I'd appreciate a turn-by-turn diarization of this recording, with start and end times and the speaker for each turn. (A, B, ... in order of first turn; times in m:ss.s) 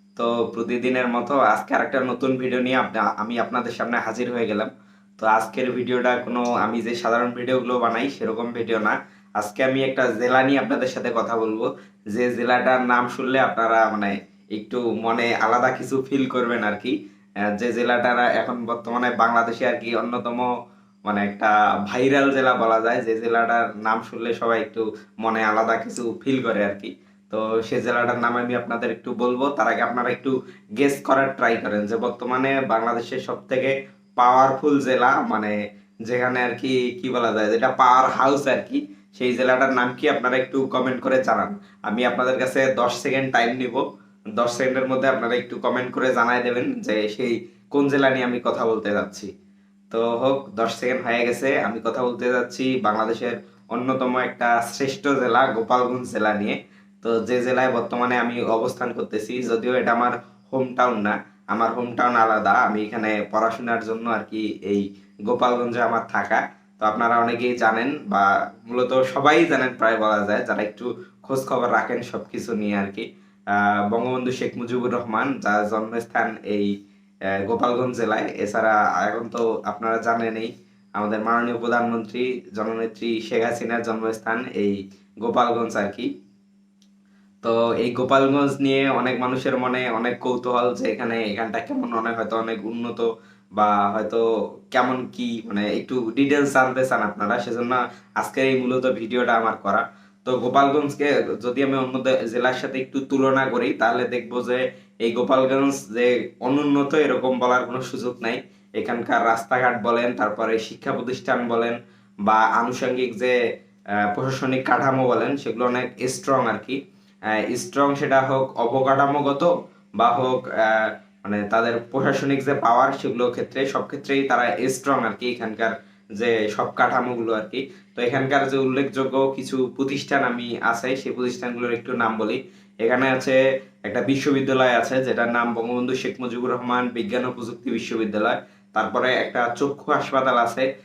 0:00.2-0:17.0 A
0:17.6-0:20.5 A
0:21.1-0:35.6 A
0:36.1-0:43.8 A
0:44.4-0:49.3 A
0:49.9-1:16.7 A
1:17.5-1:26.1 A
1:27.4-1:53.4 A
1:54.1-1:56.8 A
1:57.5-2:20.7 A